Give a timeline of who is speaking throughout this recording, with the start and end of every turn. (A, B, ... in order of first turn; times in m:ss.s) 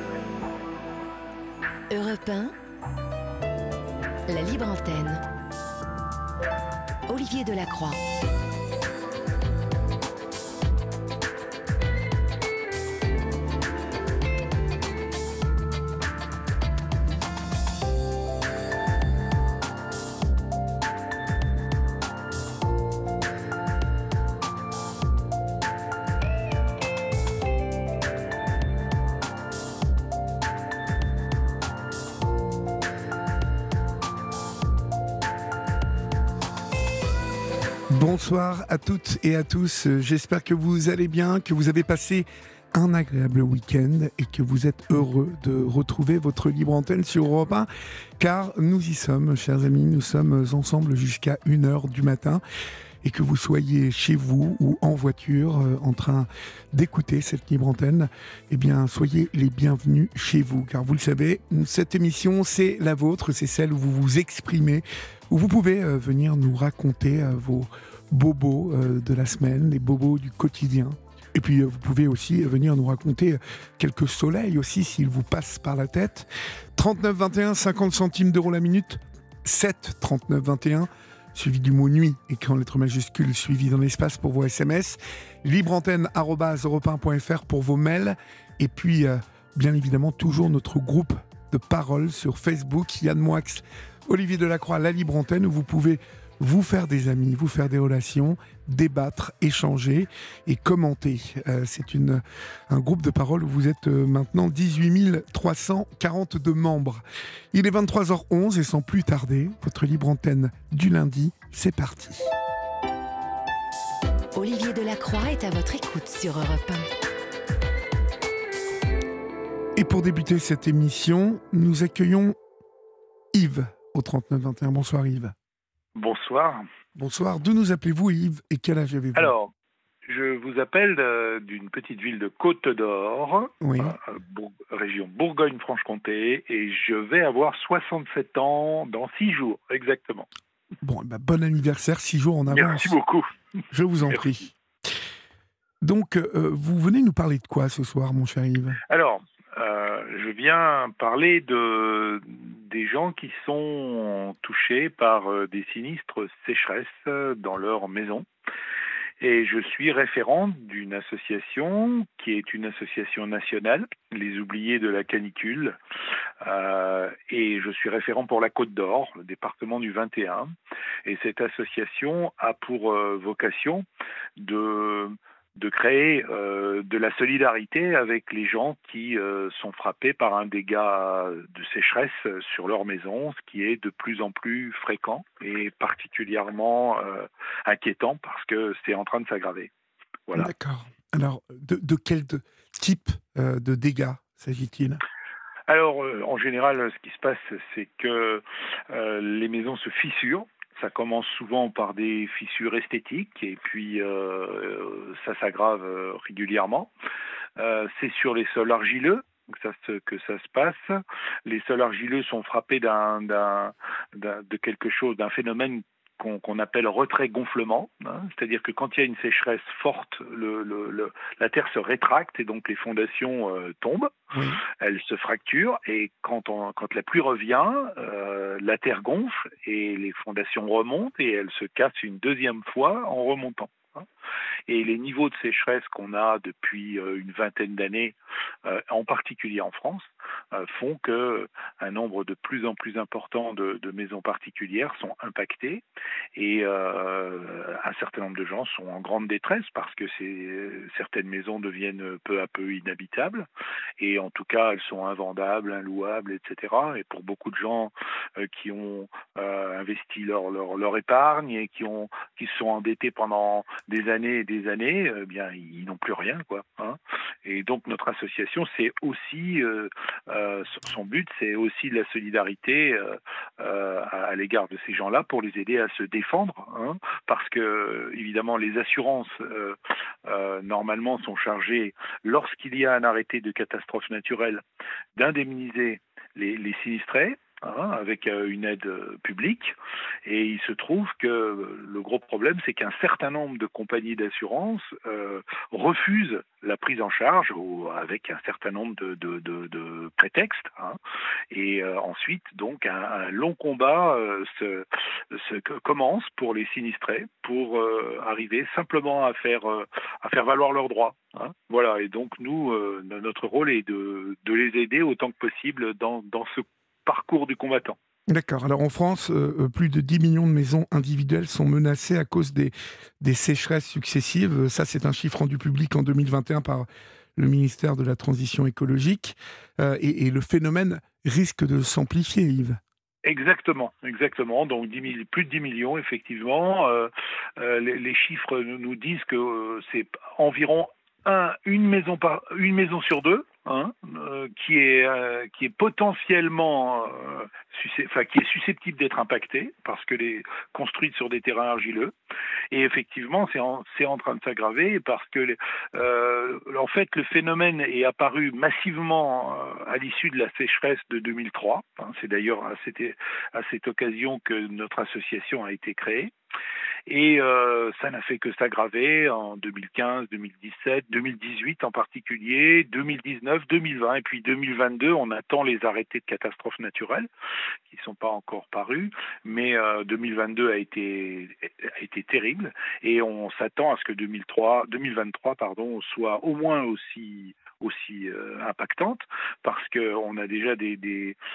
0:01.9-0:02.5 A
0:04.3-0:05.2 A
0:07.1-0:08.0 A
0:37.9-0:52.4 B
0:53.0-1:52.3 B
1:54.3-1:56.9 A
1:59.7-2:02.4 B
2:03.3-2:05.3 B
2:06.0-2:06.6 C
2:07.0-2:09.3 B
2:09.1-2:09.5 C
2:10.0-2:20.3 C
2:13.6-2:14.0 B
2:20.8-2:23.0 B
2:22.5-2:23.3 C
2:23.7-2:24.5 B
2:25.8-2:28.8 B
2:28.9-2:38.2 C
2:39.2-2:45.8 C
2:46.4-2:50.5 C
2:51.0-2:53.8 C
2:54.4-3:09.7 C
3:10.3-3:15.0 B
3:15.7-3:26.9 C
3:27.6-3:54.0 C
3:44.3-3:44.6 B
3:54.7-4:05.8 C
4:06.4-4:13.5 C
4:14.0-4:44.6 C
4:45.2-4:49.7 C
4:50.2-5:01.0 C
5:01.5-5:18.0 C
5:18.3-5:32.8 B
5:33.2-5:52.1 C
5:52.7-6:06.3 C
6:07.1-6:17.3 C
6:17.9-6:31.4 C